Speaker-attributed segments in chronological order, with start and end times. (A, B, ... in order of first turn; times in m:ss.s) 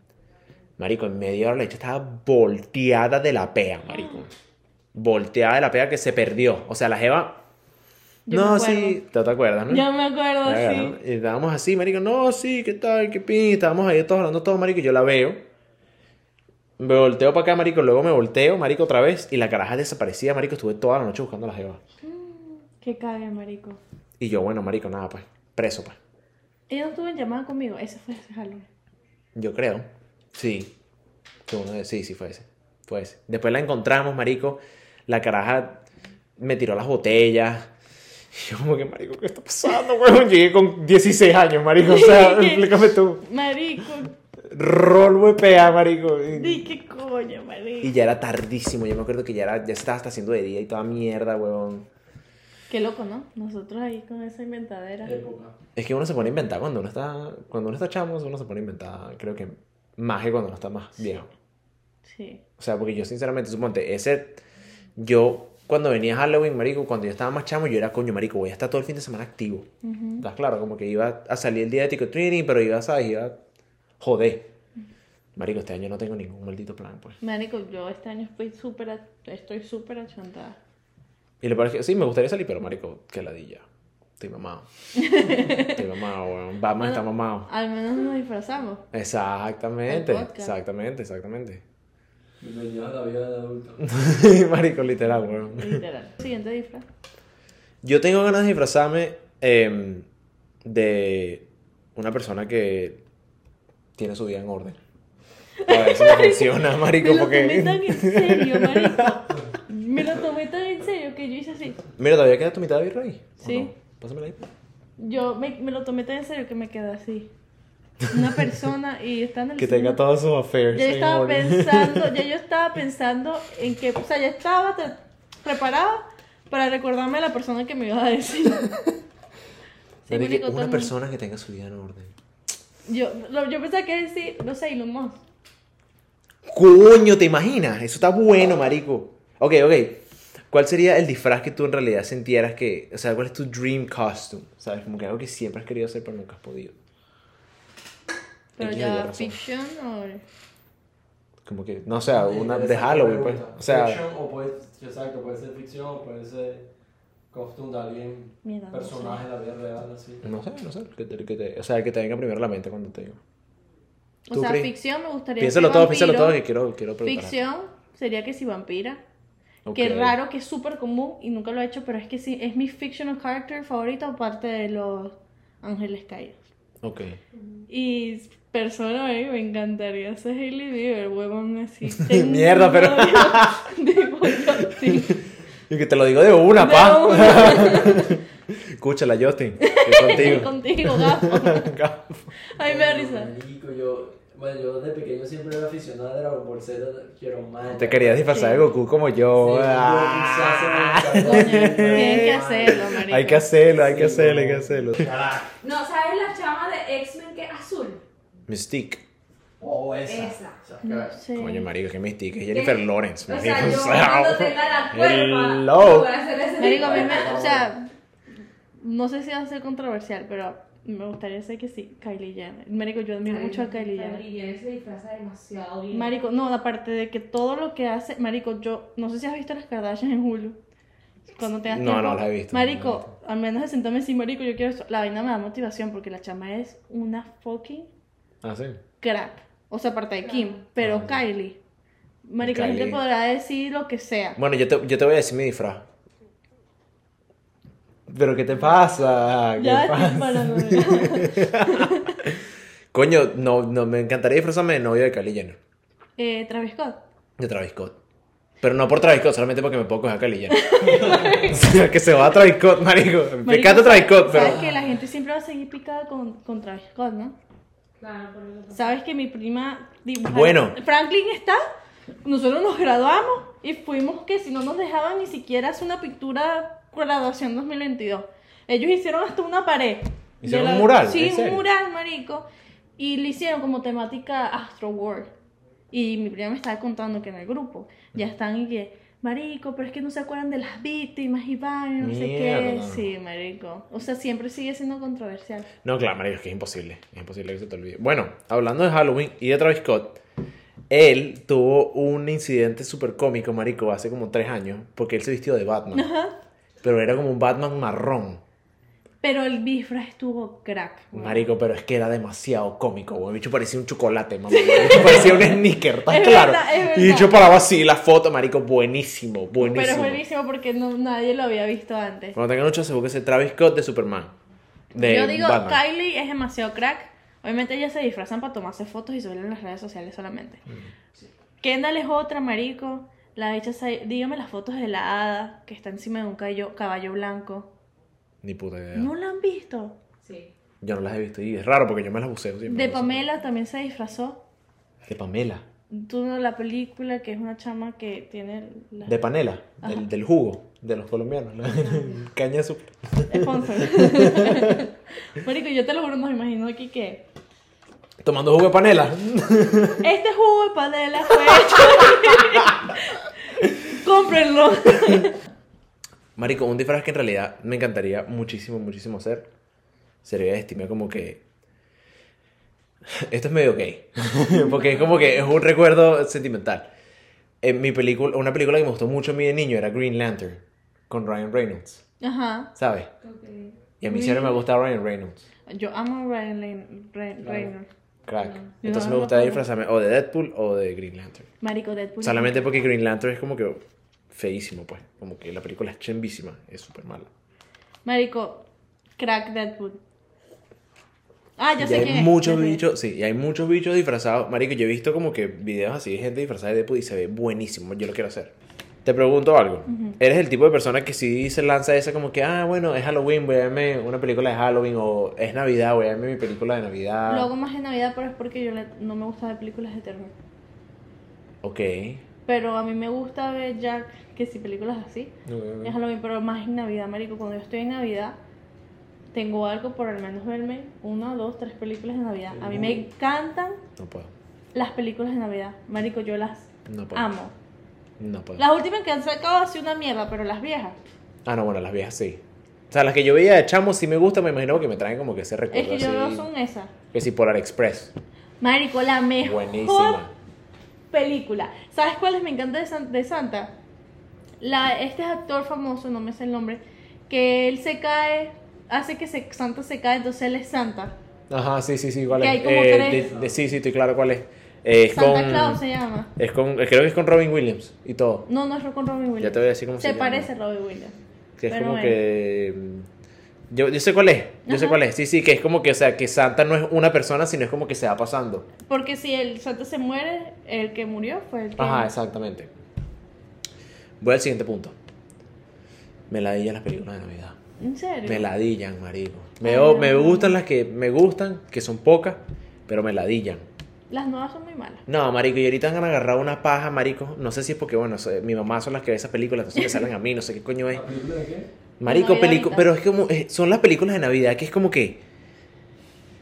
0:00.8-0:04.3 A
0:04.9-0:07.4 A
0:08.3-0:09.0 B
0:08.3-0:09.9 A
0:09.7-0:11.0 B
0:10.4-0:15.4 A
0:16.8-0:21.8 A
0:22.0-0:23.8 B
0:24.2-0:26.0 A
0:26.7-0:28.6 B
0:29.4-0:30.7 A
0:31.5-0:35.8 A
0:36.4-0:37.7 A
0:38.3-0:43.2 A
0:41.8-0:44.1 B
0:44.5-0:46.6 A
0:46.3-0:47.9 B
0:47.8-0:51.9 A
0:52.7-0:55.1 B
0:55.0-0:55.6 C
0:55.8-1:01.3 A
1:02.1-1:02.4 B
1:02.6-1:04.4 A
1:05.0-1:09.7 A
1:09.8-1:10.2 B
1:10.2-1:13.4 A
1:14.0-1:14.5 A
1:15.4-1:17.2 A
1:17.2-1:20.6 B
1:21.4-1:23.7 A
1:24.2-1:27.5 A
1:25.0-1:25.8 B
1:26.8-1:28.8 B
1:28.9-1:31.6 A
1:29.9-1:30.5 B
1:32.4-1:33.8 C
1:33.8-1:35.8 A
1:35.5-1:36.8 B
1:37.8-1:40.1 A
1:40.6-1:43.0 A
1:44.0-1:44.8 A
1:45.6-1:51.8 B
1:45.7-1:49.2 A
1:52.0-1:54.4 A
1:53.4-1:53.7 B
1:55.0-1:57.3 B
1:58.1-2:00.0 B
1:59.6-2:02.2 A
2:00.7-2:08.9 B
2:10.1-2:10.9 B
2:10.1-2:12.1 A
2:12.9-2:15.2 B
2:16.5-2:26.8 A
2:28.6-2:29.4 A
2:28.6-2:30.2 B
2:31.4-2:34.0 A
2:32.1-2:36.7 C
2:37.3-2:40.3 C
2:38.4-2:39.2 B
2:40.2-2:43.2 A
2:44.3-2:46.4 B
2:44.3-2:44.7 A
2:45.4-2:47.4 A
2:47.0-2:49.0 B
2:49.7-2:50.2 A
2:49.8-2:56.4 B
2:56.8-2:57.2 A
2:57.7-3:05.2 B
3:02.0-3:03.6 A
3:04.3-3:05.1 A
3:05.7-3:12.3 A
3:06.6-3:08.1 B
3:09.6-3:11.8 B
3:10.1-3:10.4 C
3:12.5-3:13.3 B
3:12.6-3:18.4 C
3:17.7-3:25.1 A
3:18.3-3:18.7 B
3:19.3-3:22.8 C
3:21.1-3:23.5 B
3:23.7-3:25.5 C
3:25.6-3:28.0 D
3:28.5-3:29.0 A
3:29.6-3:31.2 C
3:30.1-3:30.6 D
3:30.8-3:31.7 B
3:31.4-3:36.1 A
3:32.5-3:37.4 D
3:36.6-3:37.9 B
3:36.6-3:37.7 C
3:38.8-3:44.2 B
3:43.3-3:46.1 D
3:45.9-3:50.6 B
3:51.4-3:57.9 B
3:51.7-3:53.1 A
3:58.4-3:58.8 A
3:59.0-4:01.6 B
4:00.3-4:00.5 D
4:00.8-4:01.2 A
4:02.2-4:04.4 B
4:02.4-4:03.0 A
4:04.4-4:05.9 A
4:08.1-4:12.4 A
4:09.6-4:12.2 B
4:12.9-4:15.6 A
4:16.2-4:17.0 B
4:17.4-4:18.0 A
4:18.6-4:24.6 A
4:20.5-4:21.6 B
4:20.9-4:21.4 C
4:23.5-4:27.4 B
4:24.4-4:25.0 C
4:28.0-4:28.8 D
4:28.7-4:31.6 B
4:30.3-4:30.8 A
4:32.2-4:42.5 B
4:40.4-4:41.6 A
4:43.0-4:45.3 B
4:45.9-4:55.7 B
4:52.0-4:53.1 A
4:55.8-5:00.2 A
5:00.9-5:06.1 A
5:05.9-5:06.4 B
5:06.8-5:08.4 A
5:09.2-5:11.5 B
5:11.1-5:20.2 A
5:14.5-5:15.6 B
5:16.1-5:17.6 B
5:19.6-5:22.4 B
5:22.4-5:24.3 A
5:24.9-5:25.8 A
5:25.0-5:30.6 B
5:31.6-5:37.7 B
5:38.4-5:39.1 A
5:38.9-5:40.0 B
5:40.2-5:40.5 D
5:40.8-5:43.2 A
5:42.7-5:44.4 B
5:45.1-5:45.6 A
5:45.9-5:49.2 B
5:49.0-5:54.8 A
5:53.3-5:57.2 B
5:58.2-6:00.1 A
6:00.0-6:05.4 B
6:01.7-6:02.7 A
6:06.4-6:09.5 A
6:10.2-6:11.4 A
6:13.1-6:16.9 A
6:14.5-6:14.9 B
6:14.8-6:15.3 D
6:17.6-6:22.0 A
6:22.2-6:22.7 B
6:22.8-6:23.1 A
6:23.2-6:23.8 D
6:24.0-6:25.5 A
6:24.1-6:24.6 B
6:25.7-6:27.9 B
6:27.4-6:27.7 C
6:28.3-6:31.5 A
6:28.4-6:28.7 D
6:28.8-6:29.6 B
6:31.6-6:32.7 B
6:32.2-6:37.3 A
6:38.0-6:38.7 B
6:39.2-6:40.0 B
6:41.6-6:42.8 B
6:41.8-6:48.5 A
6:49.0-6:57.5 A
6:49.9-6:50.2 B
6:57.3-7:00.3 B
7:01.6-7:02.2 A
7:02.5-7:08.4 B
7:05.5-7:06.0 A
7:09.3-7:13.8 B
7:12.5-7:13.0 C
7:14.0-7:14.3 A
7:14.8-7:17.5 B
7:16.9-7:17.3 A
7:18.2-7:18.6 A
7:18.6-7:21.0 B
7:21.4-7:26.5 A
7:25.7-7:26.9 B
7:27.1-7:28.1 A
7:28.6-7:30.2 B
7:29.4-7:30.3 A
7:31.1-7:33.7 B
7:34.6-7:41.2 B
7:41.5-7:45.8 A
7:42.3-7:43.3 B
7:43.1-7:43.5 C
7:45.2-7:46.3 B
7:46.4-7:48.4 A
7:48.5-7:51.2 B
7:49.4-7:50.5 A
7:51.6-7:53.1 A
7:51.7-7:52.2 B
7:53.7-7:58.7 A
7:54.7-7:55.0 B
7:58.8-8:02.1 B
8:01.8-8:02.7 A
8:04.2-8:05.0 A
8:06.3-8:07.6 A
8:07.8-8:08.5 B
8:08.2-8:13.7 A
8:09.6-8:10.6 B
8:14.1-8:15.0 B
8:15.1-8:21.0 A
8:20.9-8:21.7 C
8:22.0-8:25.2 A
8:22.0-8:22.9 B